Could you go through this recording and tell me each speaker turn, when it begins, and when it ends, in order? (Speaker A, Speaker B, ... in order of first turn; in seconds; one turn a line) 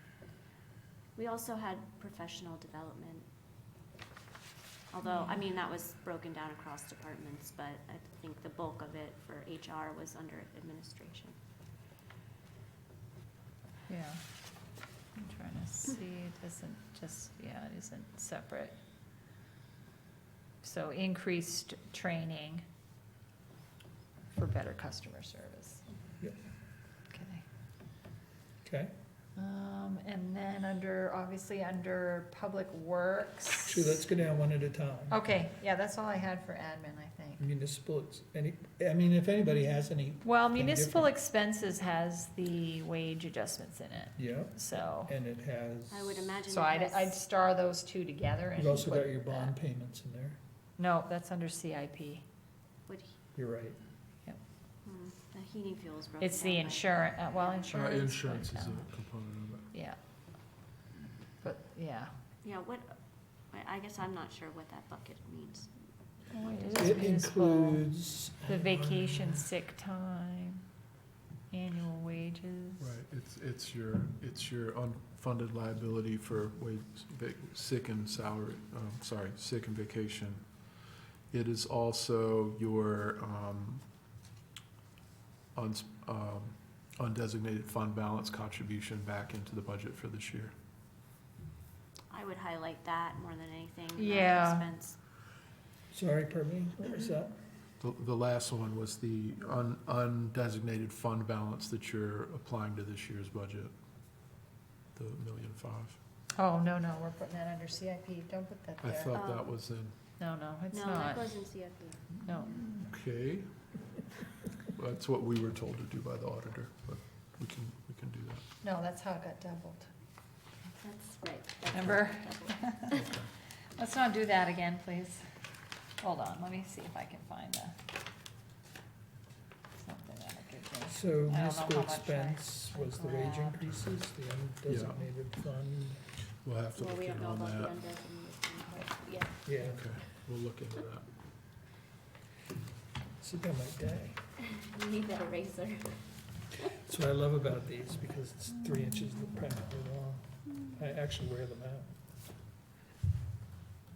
Speaker A: 1.1-3.2
Speaker A: 4.9-11.3
Speaker B: 5.0-5.4
Speaker B: 13.9-14.2
Speaker B: 15.1-18.8
Speaker B: 20.6-22.6
Speaker B: 24.3-25.8
Speaker B: 27.1-27.4
Speaker C: 28.6-28.9
Speaker B: 29.4-34.0
Speaker C: 33.6-35.2
Speaker B: 35.1-37.4
Speaker C: 37.4-41.1
Speaker B: 40.2-45.1
Speaker C: 44.2-46.3
Speaker A: 45.9-47.1
Speaker B: 46.5-49.5
Speaker C: 48.6-50.4
Speaker B: 50.8-52.2
Speaker A: 52.9-53.2
Speaker C: 53.3-53.8
Speaker A: 54.8-57.7
Speaker B: 56.2-58.9
Speaker D: 57.7-59.7
Speaker B: 59.7-60.0
Speaker B: 61.4-62.1
Speaker A: 62.4-63.0
Speaker A: 63.5-65.7
Speaker B: 66.3-67.8
Speaker C: 66.8-69.3
Speaker B: 68.4-70.6
Speaker B: 71.5-72.8
Speaker D: 72.8-80.5
Speaker D: 81.3-83.8
Speaker D: 85.5-90.5
Speaker A: 92.1-95.0
Speaker B: 94.0-94.7
Speaker C: 95.9-97.3
Speaker D: 97.8-103.7
Speaker D: 104.9-106.0
Speaker B: 106.3-109.1
Speaker D: 108.8-109.9
Speaker A: 109.1-109.5
Speaker B: 110.2-111.3
Speaker A: 110.7-112.0
Speaker B: 112.2-112.6
Speaker D: 112.9-113.5
Speaker D: 114.8-118.4
Speaker B: 118.6-119.9
Speaker A: 120.7-123.0
Speaker B: 121.7-123.1
Speaker D: 122.9-123.3
Speaker B: 123.8-125.2
Speaker B: 126.0-127.8
Speaker B: 129.7-133.6
Speaker C: 130.8-136.0
Speaker D: 134.7-135.0
Speaker D: 136.4-137.8
Speaker A: 136.8-139.4
Speaker C: 139.4-139.8
Speaker D: 139.6-141.1
Speaker C: 143.2-144.2
Speaker A: 144.4-146.1
Speaker C: 146.7-151.9